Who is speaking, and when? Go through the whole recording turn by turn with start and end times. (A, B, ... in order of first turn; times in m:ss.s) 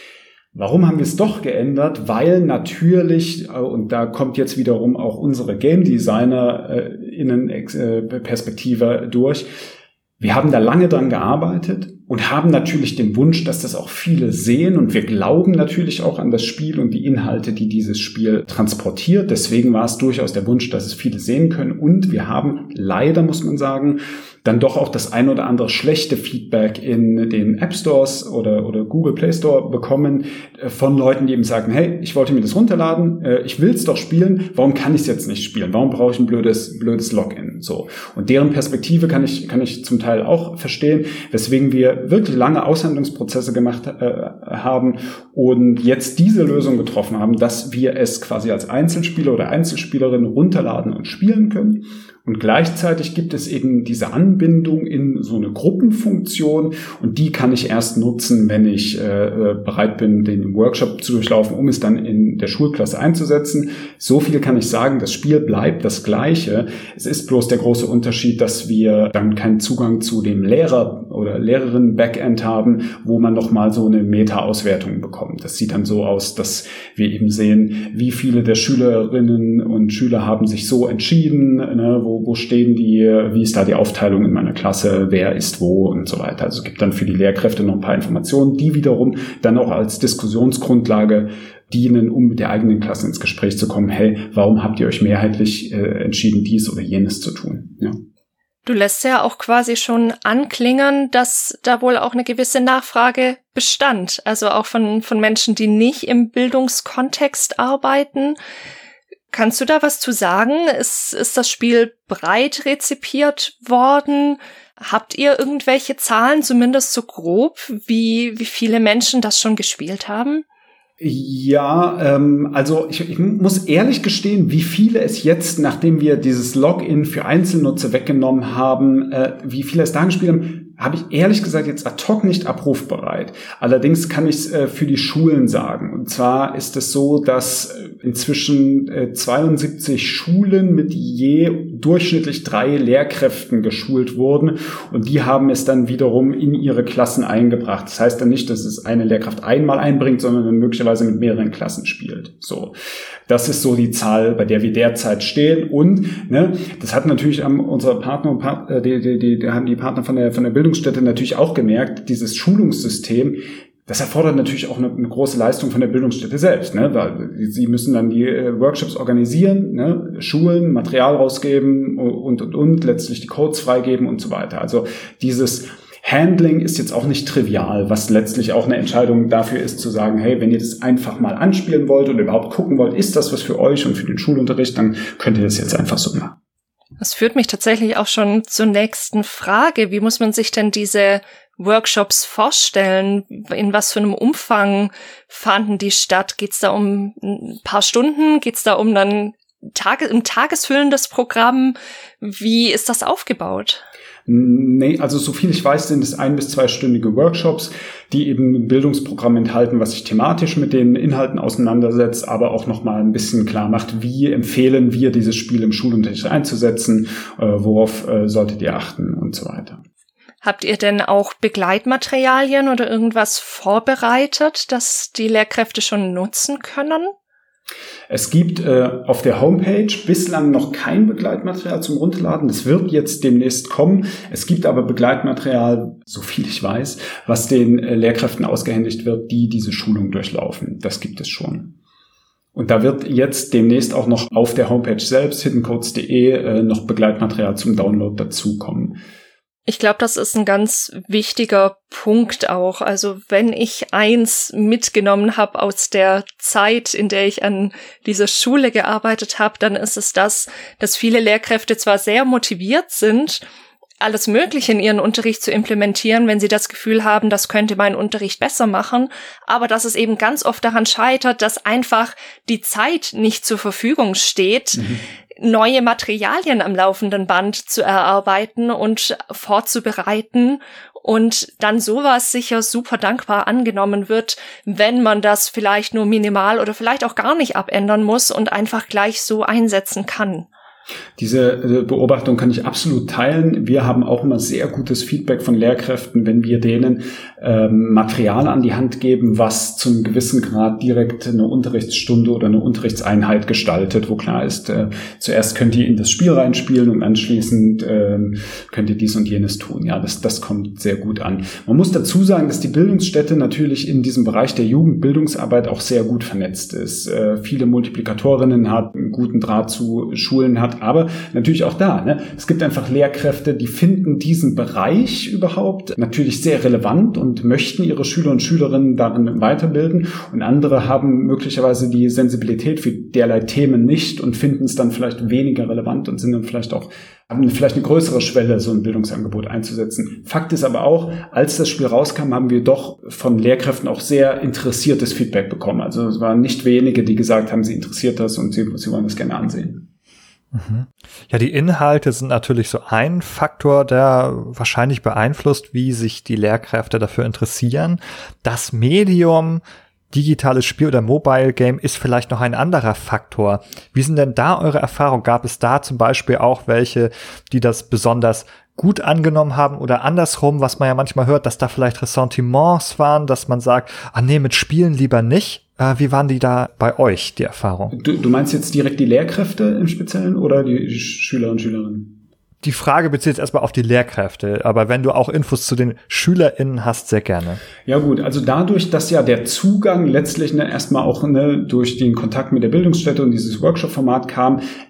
0:00.5-0:09.5 A
0:10.2-1:38.0 A
1:38.6-1:48.4 B
1:49.3-2:00.4 B
2:01.0-2:32.7 A
2:33.3-3:06.3 A
3:07.0-3:23.8 B
3:24.3-3:39.8 A
3:40.4-3:47.1 B
3:48.1-4:01.7 A
4:02.5-4:09.0 A
4:09.7-4:23.4 B
4:24.0-4:34.8 B
4:34.8-4:35.0 A
4:35.4-4:50.5 B
4:51.2-5:49.8 A
5:50.5-6:17.9 C
6:17.9-6:22.1 A
6:22.6-6:27.6 C
6:27.8-6:34.6 A